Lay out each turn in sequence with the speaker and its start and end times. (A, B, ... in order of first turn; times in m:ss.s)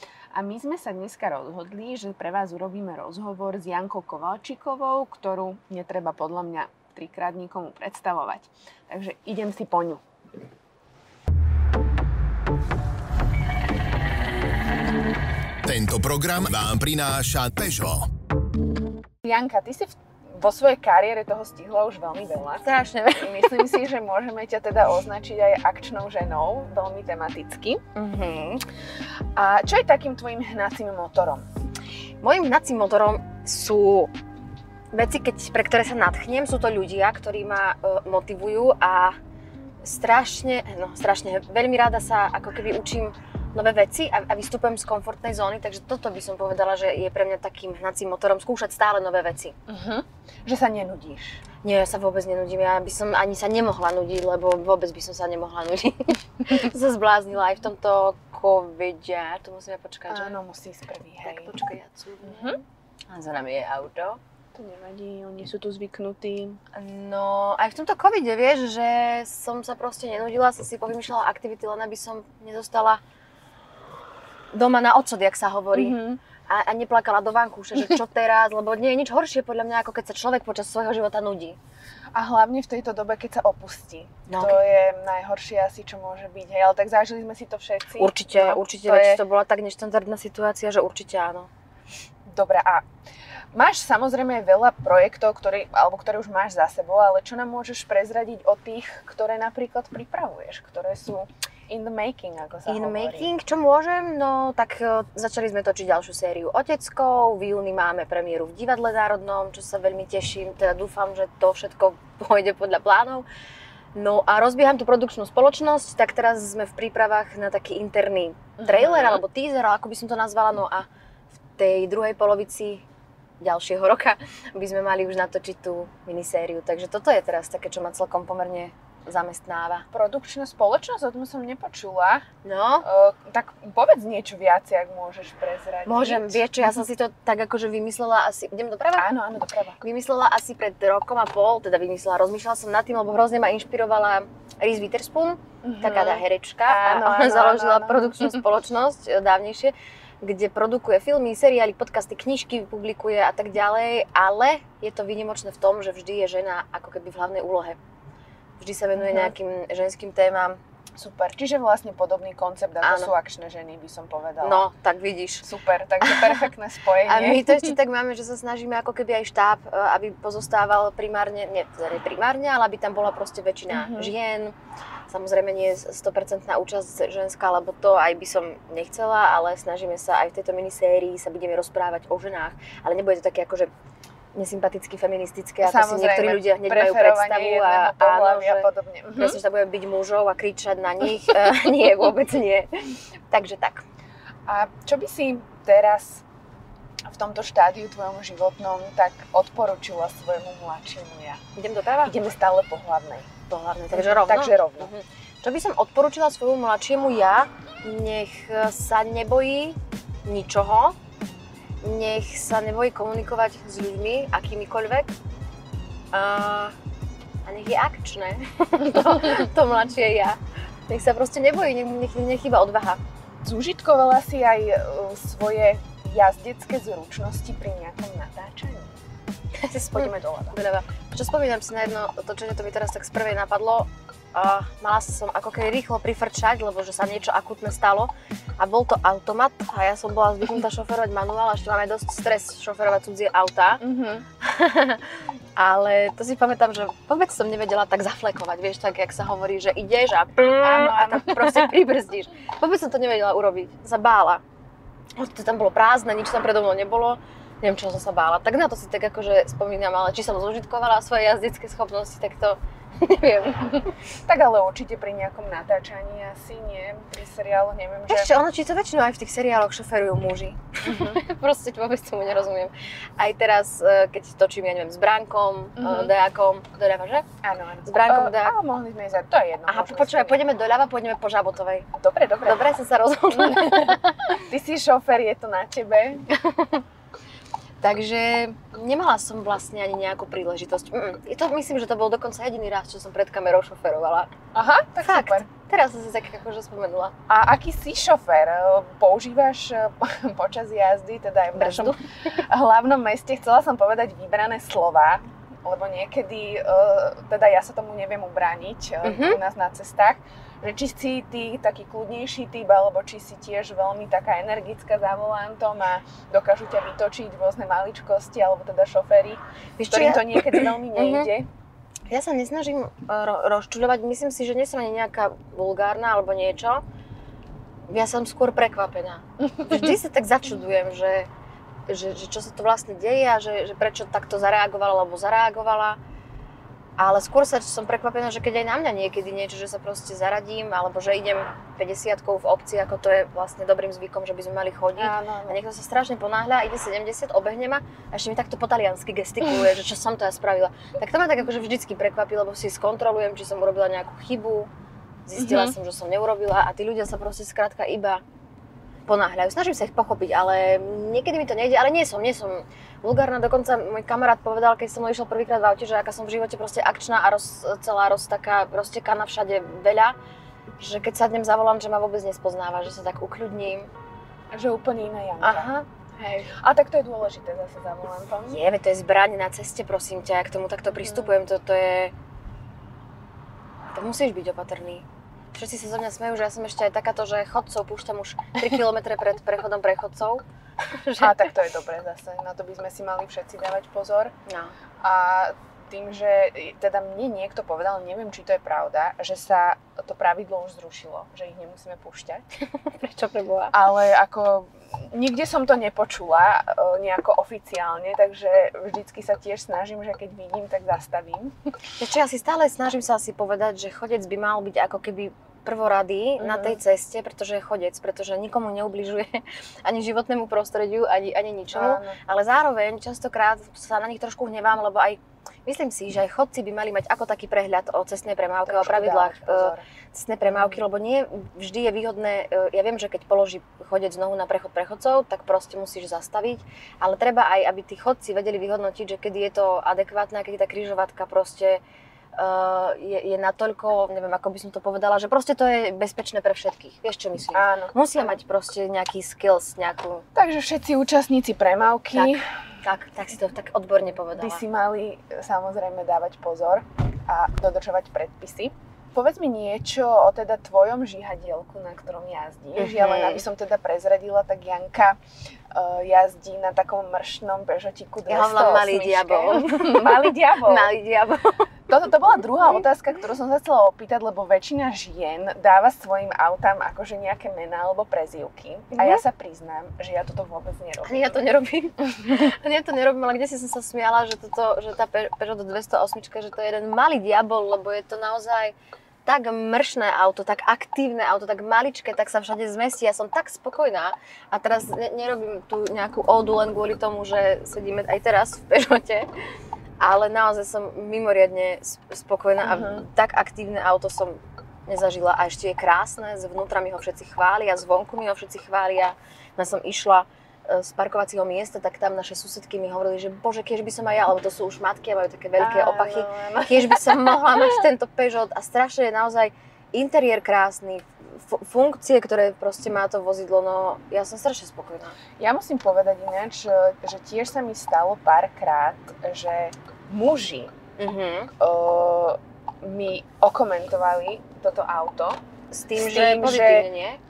0:00.3-0:10.0 A
0:15.6-0:18.1 B
0:19.2-0:22.6 A
0:22.6-0:23.8 C
0:23.2-0:27.8 A
0:28.0-0:28.6 C
0:29.4-0:31.4 A
0:32.2-0:34.1 C
0:34.9-0:39.2 C
0:39.8-0:49.6 C
0:49.7-0:51.4 A
0:51.6-1:00.4 C
1:00.1-1:01.5 A
1:01.2-1:02.6 C
1:02.2-1:02.6 A
1:03.1-1:04.2 C
1:04.5-1:06.6 A
1:06.8-1:13.0 C
1:14.5-1:21.6 C
1:15.7-1:16.2 A
1:22.1-1:29.2 A
1:24.3-1:24.6 C
1:28.0-1:31.5 C
1:32.3-1:32.9 A
1:33.5-1:43.3 A
1:42.7-1:53.3 C
1:54.0-2:00.9 C
1:58.6-1:59.2 A
2:01.6-2:02.8 C
2:03.4-2:09.9 C
2:09.9-2:12.2 A
2:12.4-2:12.8 C
2:12.8-2:16.4 A
2:15.9-2:19.1 C
2:19.0-2:19.8 A
2:19.8-2:37.8 C
2:25.6-2:28.4 A
2:38.6-2:40.6 C
2:39.0-2:39.3 A
2:41.0-2:44.7 A
2:42.8-2:43.1 C
2:44.4-2:45.5 C
2:45.4-2:47.7 A
2:46.0-2:46.5 C
2:47.1-2:54.6 C
2:53.7-2:54.1 A
2:55.1-3:03.7 C
3:04.3-3:12.7 C
3:05.6-3:09.4 A
3:13.3-3:13.8 C
3:14.5-3:16.2 A
3:17.1-3:21.4 A
3:21.6-3:22.1 C
3:22.0-3:23.3 A
3:23.5-3:31.0 C
3:23.9-3:24.9 A
3:31.8-3:35.1 C
3:36.1-3:36.8 C
3:37.5-3:43.0 C
3:43.4-3:49.0 A
3:49.6-4:03.8 C
3:49.9-3:50.6 A
4:03.8-4:04.2 A
4:04.4-4:14.4 C
4:10.6-4:11.7 A
4:15.2-4:23.9 C
4:24.3-4:28.3 A
4:28.1-4:37.3 C
4:30.8-4:31.2 A
4:35.8-4:36.1 A
4:37.4-4:40.4 A
4:37.8-4:38.6 C
4:39.7-4:41.9 C
4:42.0-4:42.6 A
4:42.4-4:44.4 C
4:43.3-4:43.9 A
4:44.5-4:46.3 A
4:46.3-4:46.8 C
4:47.8-4:54.3 C
4:54.5-4:55.5 A
4:55.0-4:57.1 C
4:57.3-5:21.5 A
5:01.6-5:02.4 C
5:09.0-5:09.4 C
5:19.8-5:21.3 C
5:22.1-5:26.8 C
5:27.9-5:31.3 C
5:31.9-5:36.0 C
5:37.0-5:54.7 C
5:45.0-5:45.6 A
5:55.3-5:58.2 C
5:55.4-5:55.8 A
5:59.1-6:10.2 C
6:10.8-6:13.9 C
6:14.5-6:18.6 A
6:15.4-6:15.8 C
6:18.5-6:22.1 C
6:23.9-6:31.5 C
6:31.2-6:34.3 A
6:34.5-6:34.7 C
6:35.0-6:42.4 A
6:42.9-6:43.7 C
6:43.7-6:51.6 A
6:52.0-7:21.8 C
6:56.4-6:56.8 A
7:01.7-7:02.2 A
7:08.6-7:09.9 A
7:10.5-7:10.8 A
7:22.4-7:30.2 C
7:27.5-7:28.4 A
7:30.4-7:32.4 A
7:32.1-7:34.6 C
7:34.4-7:45.2 A
7:42.8-7:43.4 C
7:45.7-7:50.9 A
7:48.3-7:51.7 C
7:51.9-8:01.4 A
7:59.0-7:59.2 C
8:01.0-8:19.3 C
8:20.0-8:45.2 C
8:22.6-8:23.0 A
8:35.6-8:37.7 A
8:45.4-8:50.7 A
8:51.0-8:51.5 C
8:51.6-8:55.4 A
8:55.7-8:57.2 C
8:55.9-8:56.9 A